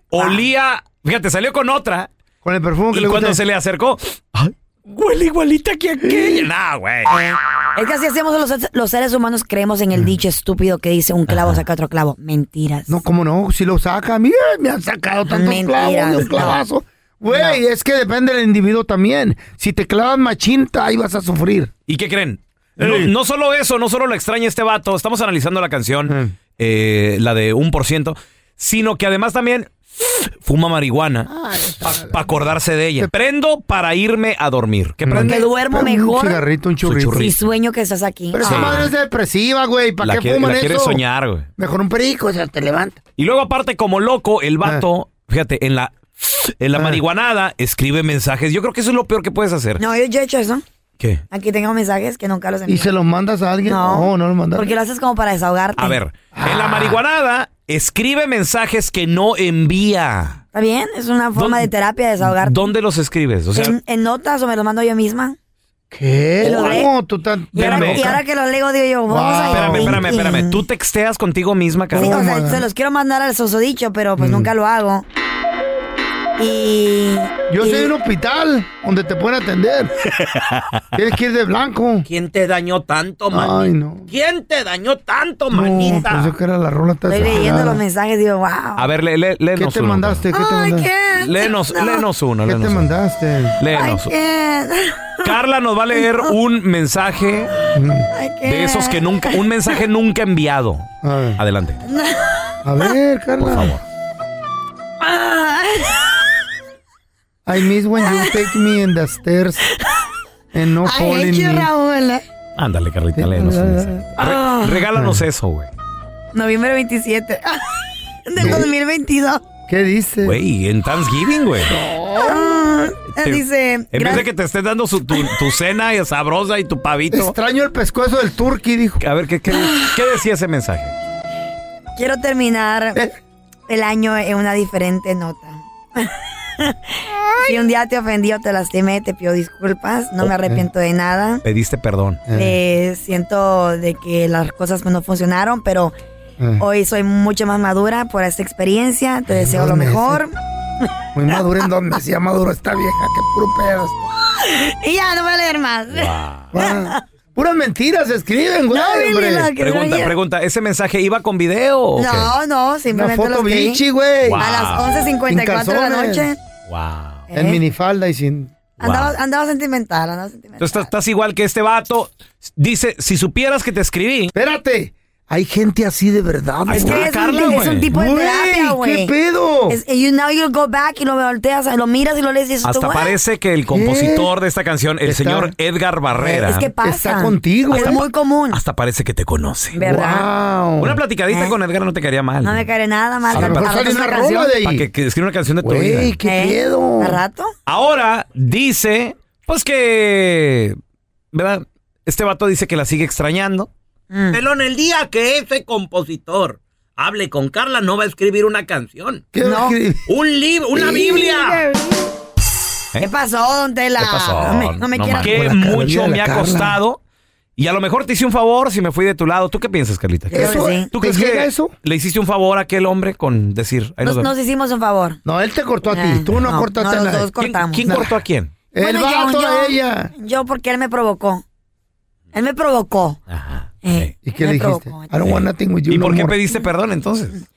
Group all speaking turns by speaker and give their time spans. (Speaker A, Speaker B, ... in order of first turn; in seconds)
Speaker A: 0.1-2.1, 2.9-7.2, 11.3-11.6, 21.9-31.3, 31.8-35.4, 36.8-37.3, 38.4-38.9, 40.0-41.5, 43.2-49.8, 55.8-60.4, 61.4-61.7, 62.2-63.8, 66.4-66.8, 67.5-68.2, 69.5-72.2, 80.1-80.8, 82.1-86.3, 88.8-90.2, 91.1-92.9, 93.6-94.1, 95.2-97.5, 98.4-101.8, 103.4-103.8, 112.6-115.7, 120.2-121.7, 123.2-127.3, 129.0-130.9, 141.4-142.2, 155.9-156.5, 159.6-162.3, 164.2-164.9, 166.7-167.2, 168.8-169.1, 170.6-174.3, 176.7-177.9, 182.6-186.7, 187.7-189.8, 190.8-192.7, 193.3-194.0, 194.6-196.2, 197.7-200.8, 201.3-203.7, 204.3-209.2, 210.1-211.6, 214.0-217.0, 217.6-224.3, 227.4-228.5, 233.3-234.1, 235.2-237.4
Speaker B: 0.1-0.4, 7.1-13.0, 15.3-16.6, 17.3-17.6, 35.1-36.4, 37.1-38.9, 49.8-50.6, 51.3-52.9, 53.6-56.0, 60.5-62.7, 63.5-65.3, 66.4-66.9, 67.5-70.6, 71.9-75.0, 76.4-77.9, 87.1-88.9, 90.3-92.0, 93.7-95.3, 96.0-96.3, 98.1-99.4, 101.9-102.5, 105.0-106.0, 108.0-108.3, 110.8-112.2, 114.2-114.8, 116.3-117.6, 118.2-119.4, 122.2-124.3, 129.6-129.9, 131.9-133.0, 133.7-141.4, 142.3-145.9, 146.6-150.9, 154.4-157.0, 158.7-160.2, 162.0-163.8, 164.4-166.4, 167.3-167.6, 168.8-170.9, 176.7-179.1, 179.7-183.2, 186.1-188.6, 189.7-190.2, 191.3-191.5, 192.4-194.5, 196.2-197.5, 204.1-204.4, 209.4-209.8, 213.0-215.6, 220.3-220.9, 224.0-225.2, 225.9-228.0, 228.7-231.4, 232.3-233.2, 233.8-235.3
Speaker C: 2.4-3.4, 6.0-6.5, 12.9-21.7, 22.8-23.1, 26.1-26.3, 31.3-32.2, 35.0-37.3, 38.3-41.0, 41.6-43.0, 46.7-47.0, 52.6-54.7, 56.3-57.0, 65.9-68.2, 69.1-70.1, 71.9-72.7, 74.2-74.5, 77.5-79.9, 80.9-82.0, 83.3-84.1, 85.5-87.8, 89.5-90.9, 92.4-93.6, 97.7-98.1, 101.0-101.4, 102.6-103.7, 107.5-109.6, 110.5-111.7, 113.1-114.2, 114.9-115.2, 118.4-118.7, 119.7-120.4, 121.7-122.6, 127.1-129.0, 140.2-140.7, 142.3-142.6, 146.4-146.6, 149.3-150.2, 151.1-154.1, 156.5-159.5, 162.9-164.5, 165.3-166.3, 167.3-168.5, 174.3-179.8, 183.7-184.3, 185.0-185.5, 186.8-188.0, 189.8-191.0, 193.3-194.8, 195.6-197.2, 209.3-210.0, 210.7-211.8, 215.2-216.8, 220.3-221.7, 225.2-227.3, 227.8-228.2, 228.7-230.1, 234.2-236.4